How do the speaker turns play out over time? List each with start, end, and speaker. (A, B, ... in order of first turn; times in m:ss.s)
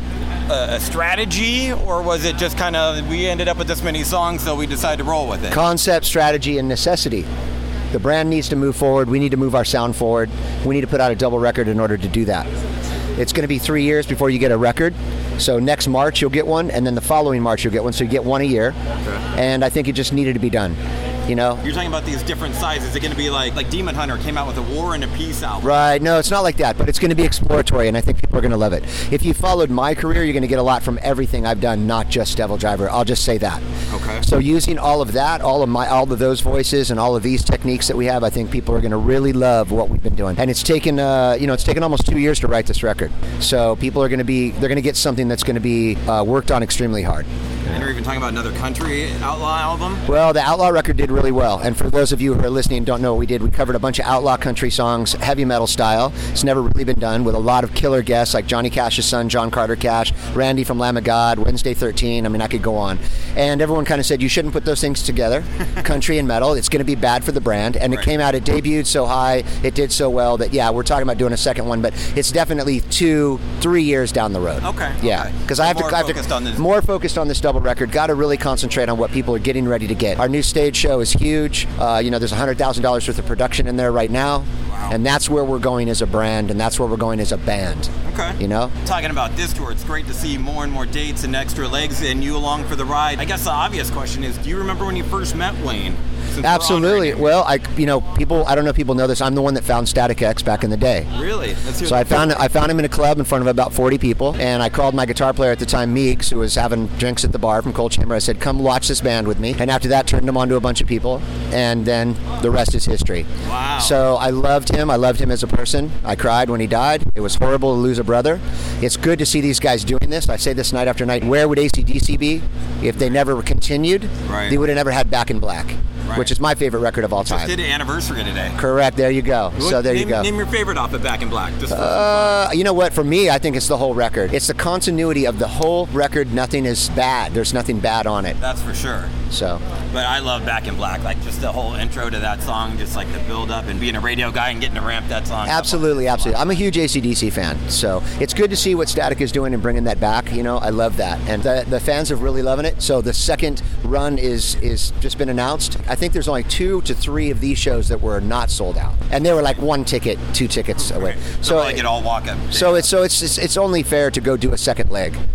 0:00.5-0:05.6 A
0:05.5-0:07.3 B
0:07.9-0:12.5 B
0:13.2-0:18.8 B
0:19.3-0:20.8 B
0:21.3-0:21.6 B
0:21.6-0:25.8 A
0:25.6-0:33.6 B
0:33.9-0:34.2 A
0:34.2-0:47.2 B
0:47.7-0:50.0 A
0:50.1-1:27.9 B
1:14.6-1:16.6 A
1:24.7-1:25.0 A
1:28.0-1:37.3 A
1:28.4-1:28.7 B
1:36.4-1:41.1 B
1:41.1-1:42.4 A
1:41.8-1:53.3 B
1:53.4-1:54.0 A
1:53.8-2:07.5 B
2:04.2-2:04.6 A
2:07.2-2:08.6 A
2:08.6-2:10.3 B
2:09.6-2:12.4 A
2:11.7-2:18.4 B
2:18.4-2:19.1 A
2:19.3-2:19.6 B
2:19.9-2:26.6 A
2:25.4-2:41.8 B
2:40.8-2:42.9 A
2:42.5-2:45.2 B